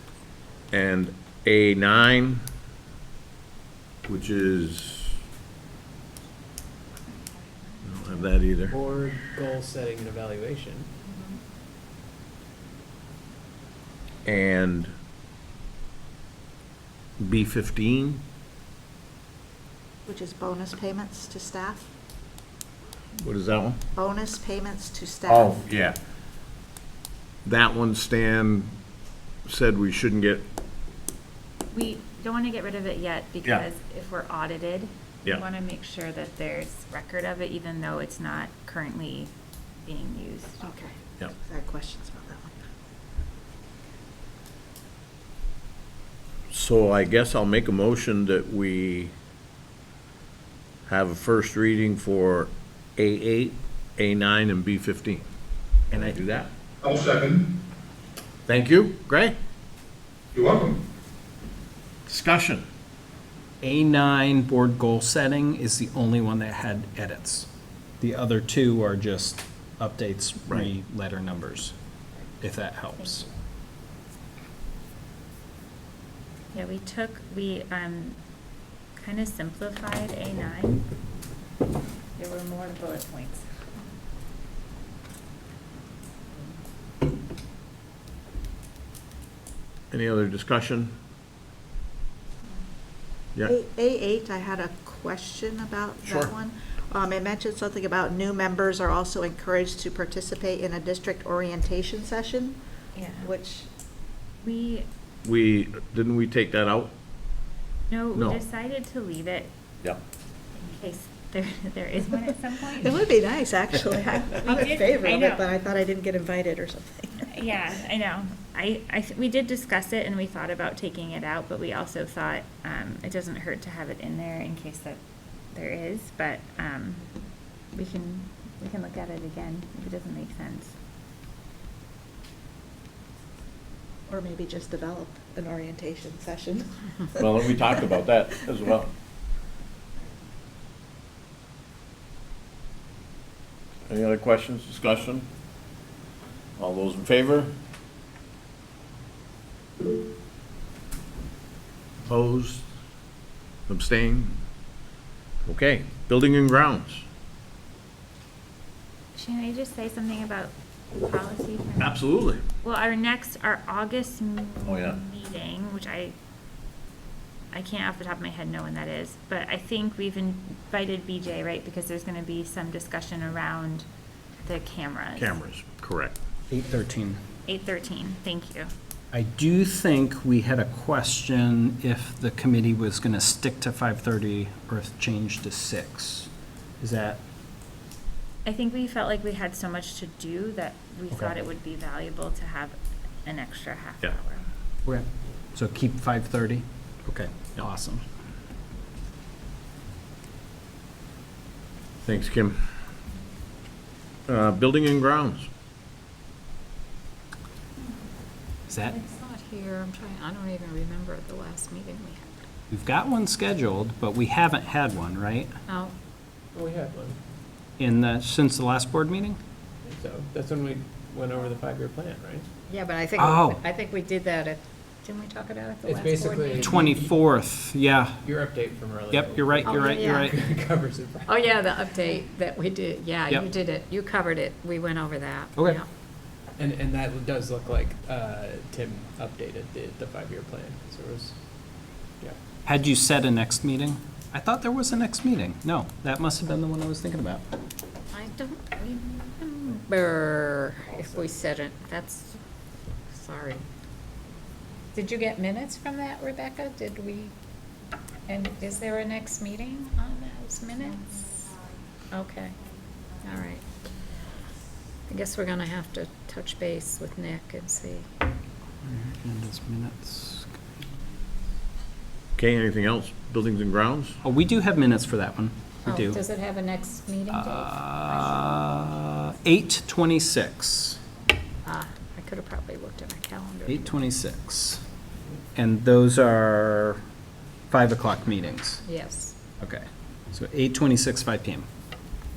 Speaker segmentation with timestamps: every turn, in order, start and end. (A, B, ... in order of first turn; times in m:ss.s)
0:00.7-0:02.4 A
0:04.0-0:05.2 A
0:07.8-0:08.8 A
0:08.7-0:10.9 B
0:14.2-0:14.9 A
0:17.2-0:18.2 A
0:20.1-0:21.9 C
0:23.2-0:23.8 A
0:24.0-0:25.6 C
0:25.3-0:26.0 A
0:27.4-0:28.8 A
0:29.4-0:30.4 A
0:31.7-0:40.6 D
0:40.6-0:42.5 C
0:46.5-0:49.1 A
0:50.9-0:55.3 A
0:55.9-0:56.2 E
0:55.9-0:57.4 A
0:58.5-0:59.4 A
1:02.1-1:02.7 A
1:03.6-1:11.8 E
1:12.4-1:13.3 E
1:16.5-1:18.2 D
1:19.0-1:20.8 D
1:22.2-1:23.4 D
1:29.9-1:31.0 A
1:33.4-1:42.6 C
1:36.0-1:36.3 A
1:43.0-1:43.3 D
1:43.2-1:43.7 C
1:44.4-1:44.9 D
1:45.2-1:46.9 A
1:47.9-1:49.5 D
1:50.6-1:53.1 D
1:52.8-1:57.5 C
1:54.4-1:55.4 D
1:57.3-2:05.0 D
2:05.5-2:07.1 D
2:07.7-2:10.7 D
2:14.1-2:17.3 C
2:17.2-2:18.9 A
2:23.9-2:25.3 A
2:26.6-2:27.5 A
2:32.1-2:32.7 A
2:33.7-2:34.4 A
2:35.4-2:37.0 A
2:39.2-2:42.0 D
2:41.8-2:42.4 A
2:42.6-2:46.2 D
2:44.6-2:45.0 A
2:47.5-2:53.9 D
2:54.4-2:55.4 D
2:55.2-2:56.2 A
2:56.5-2:57.2 E
2:57.5-2:58.7 D
2:59.1-3:07.2 E
3:08.4-3:14.5 D
3:14.8-3:18.0 E
3:22.0-3:22.6 A
3:24.3-3:25.5 A
3:28.7-3:29.0 E
3:28.9-3:32.4 F
3:32.7-3:35.5 E
3:35.7-3:35.9 F
3:36.5-3:37.2 B
3:37.8-3:39.4 E
3:39.8-3:42.5 B
3:42.7-3:46.8 F
3:43.2-3:43.6 E
3:45.8-3:47.1 B
3:46.6-3:48.2 E
3:48.2-3:51.4 B
3:49.1-3:50.4 E
3:49.6-3:50.4 F
3:51.3-3:55.8 F
3:56.6-4:01.4 B
4:02.7-4:07.4 E
4:08.1-4:12.4 F
4:10.9-4:11.3 B
4:13.1-4:13.6 F
4:14.9-4:17.3 F
4:18.3-4:21.5 F
4:22.1-4:22.6 F
4:23.2-4:23.6 F
4:25.1-4:28.1 F
4:28.8-4:30.5 E
4:32.4-4:34.2 A
4:34.2-4:36.2 E
4:35.9-4:38.3 F
4:37.3-4:41.0 E
4:41.6-4:44.0 F
4:43.7-4:44.8 E
4:45.6-4:47.0 E
4:47.7-4:48.8 E
4:48.8-4:49.4 F
4:49.6-4:51.7 E